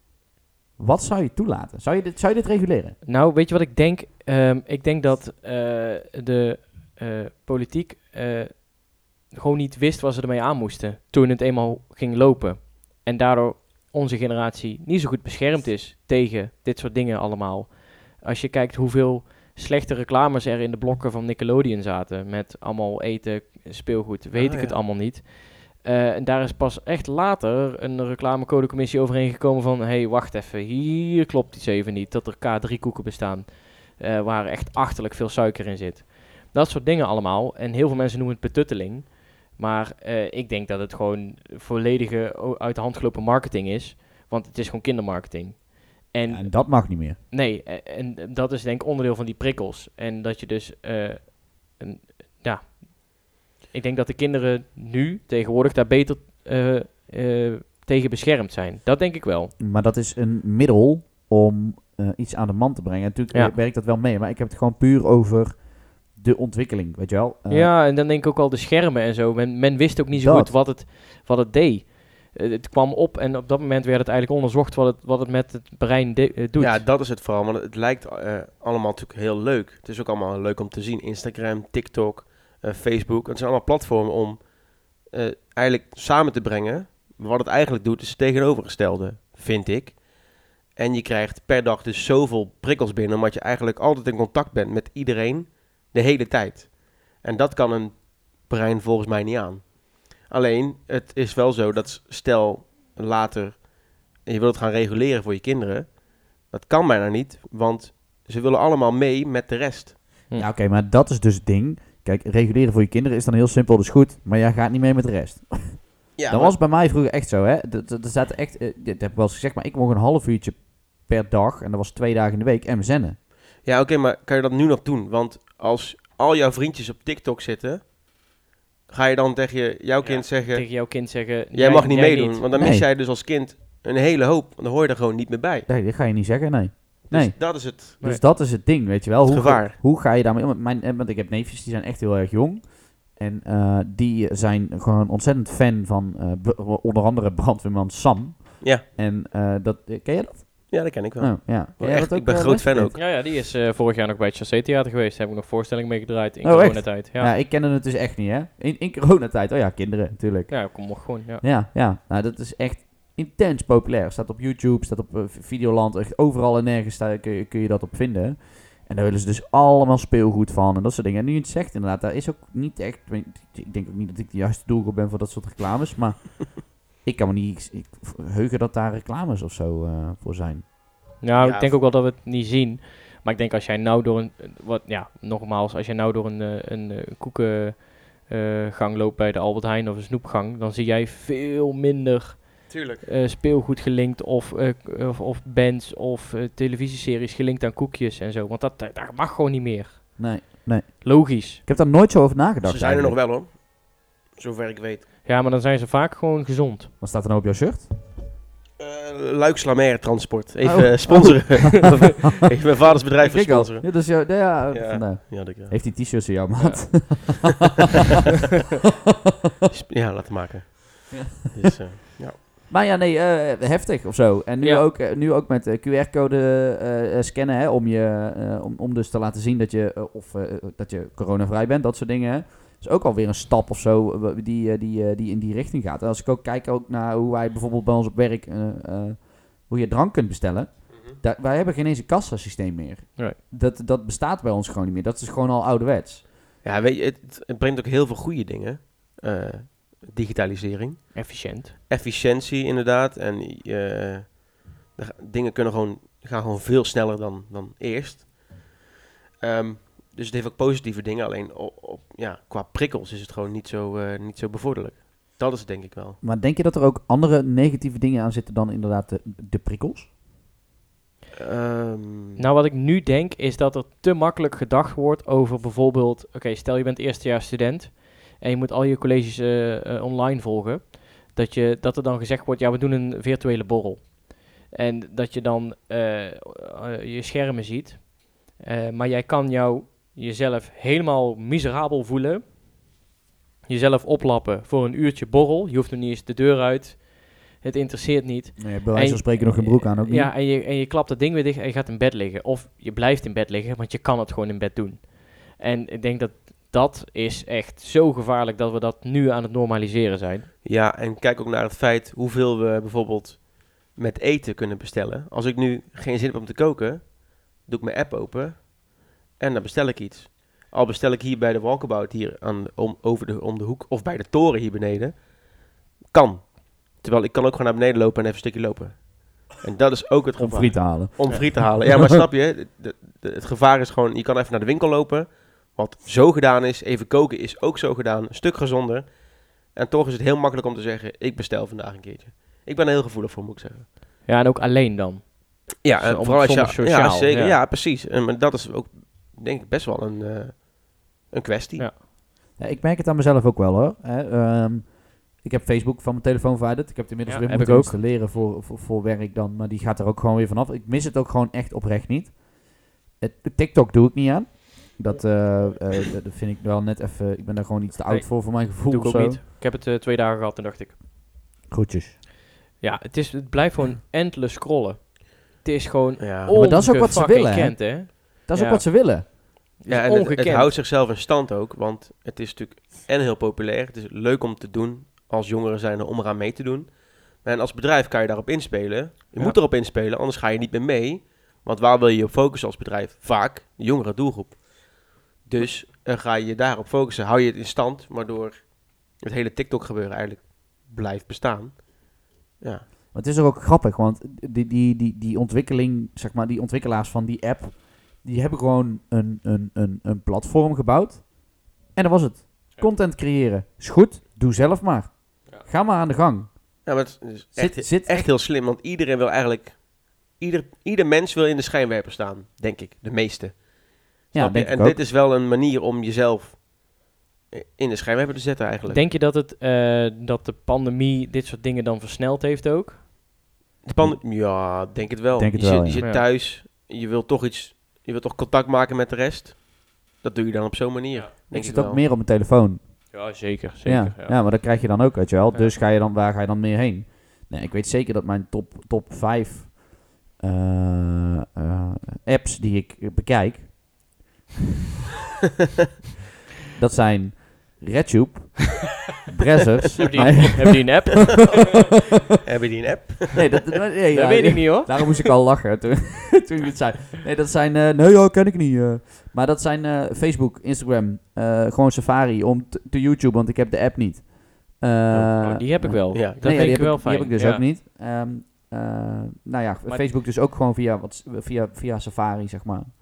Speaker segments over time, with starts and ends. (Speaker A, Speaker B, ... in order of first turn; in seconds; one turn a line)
Speaker A: 0.8-3.0
Speaker B: 3.0-59.5
Speaker C: 24.3-24.8
Speaker A: 46.3-47.2
Speaker A: 59.6-67.7
Speaker B: 67.5-76.8
Speaker A: 70.1-70.5
Speaker C: 76.6-110.0
Speaker A: 110.3-123.2
Speaker C: 116.2-116.5
Speaker C: 123.6-127.9
Speaker C: 128.9-131.0
Speaker B: 130.0-132.5
Speaker C: 131.5-135.7
Speaker A: 132.5-132.9
Speaker A: 135.7-153.0
Speaker C: 137.1-138.0
Speaker C: 139.2-139.8
Speaker C: 150.7-153.0
Speaker B: 152.9-157.3
Speaker A: 156.4-180.7
Speaker B: 160.5-161.4
Speaker B: 181.2-201.6
Speaker C: 181.3-181.8
Speaker C: 192.7-193.0
Speaker A: 200.2-203.2
Speaker C: 202.6-205.1
Speaker B: 205.2-206.9
Speaker A: 207.0-207.9
Speaker C: 208.8-215.7
Speaker A: 210.6-212.1
Speaker A: 213.2-217.6
Speaker B: 216.6-217.4
Speaker C: 219.7-222.4
Speaker A: 221.1-221.7
Speaker A: 222.7-246.2
Speaker B: 224.6-224.9
Speaker C: 240.9-241.2
Speaker C: 246.6-258.7
Speaker B: 251.1-251.7
Speaker C: 259.4-266.2
Speaker A: 266.2-270.1
Speaker C: 271.4-272.4
Speaker B: 272.4-292.5
Speaker B: 293.6-310.5
Speaker A: 298.6-300.3
Speaker C: 310.6-343.9
Speaker A: 330.4-331.9
Speaker B: 344.2-347.6
Speaker C: 345.8-351.9
Speaker A: 352.6-362.4
Speaker B: 357.3-358.0
Speaker A: 363.2-369.4
Speaker B: 368.1-371.0
Speaker A: 371.7-372.2
Speaker B: 372.8-380.7
Speaker C: 376.2-376.6
Speaker A: 376.5-379.3
Speaker C: 379.9-402.9
Speaker A: 403.1-416.8
Speaker C: 416.8-426.6
Speaker A: 417.5-418.3
Speaker A: 424.3-425.0
Speaker C: 427.5-429.1
Speaker B: 428.9-433.0
Speaker C: 433.8-442.0
Speaker A: 435.4-436.1
Speaker B: 436.0-436.2
Speaker A: 441.5-454.1
Speaker B: 443.1-444.5
Speaker A: 456.8-461.2
Speaker B: 460.0-461.6
Speaker C: 461.6-463.7
Speaker A: 463.4-482.9
Speaker B: 464.1-465.3
Speaker B: 475.4-477.6
Speaker C: 476.1-476.5